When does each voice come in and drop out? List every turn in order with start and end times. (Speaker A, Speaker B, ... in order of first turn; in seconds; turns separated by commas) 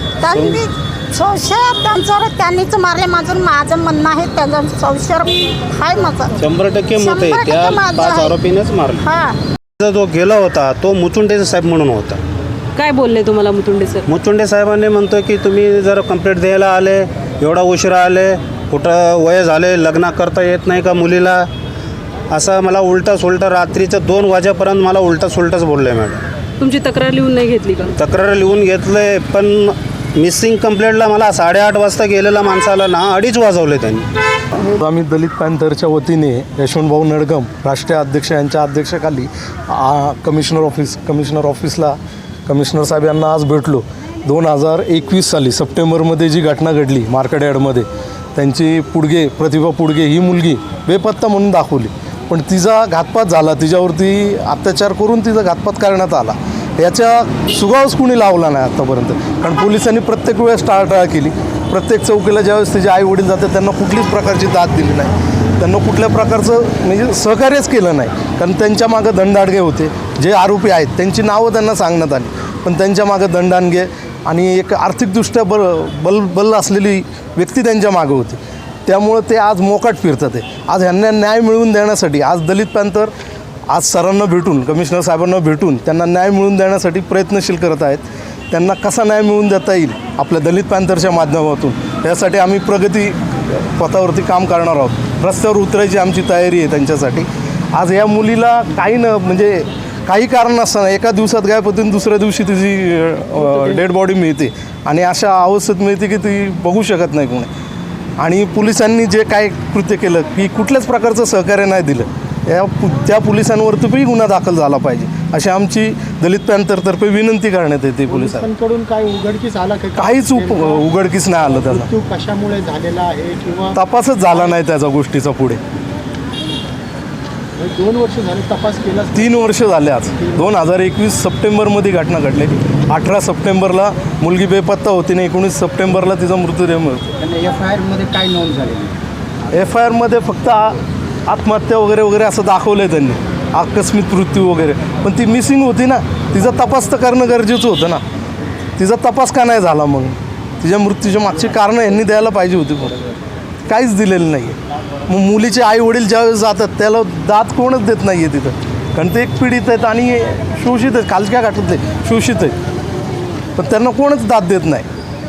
Speaker A: 0.2-6.4, Speaker B: 0.3-0.6, Speaker B: 6.4-9.1, Speaker A: 7.0-8.4, Speaker A: 9.0-9.4, Speaker B: 9.8-12.2, Speaker C: 12.8-14.1, Speaker B: 14.1-21.5, Speaker B: 22.3-26.2, Speaker C: 26.6-27.9, Speaker B: 28.0-34.1, Speaker D: 34.6-83.1, Speaker D: 83.7-107.5, Speaker D: 108.2-118.5, Speaker E: 118.1-120.9, Speaker D: 120.0-121.9, Speaker E: 121.5-123.8, Speaker D: 123.7-125.6, Speaker E: 127.6-129.5, Speaker D: 129.1-137.0, Speaker E: 137.2-138.9, Speaker D: 139.5-148.0, Speaker D: 148.8-153.0, Speaker D: 153.7-154.6, Speaker D: 155.1-162.6, Speaker D: 163.6-164.8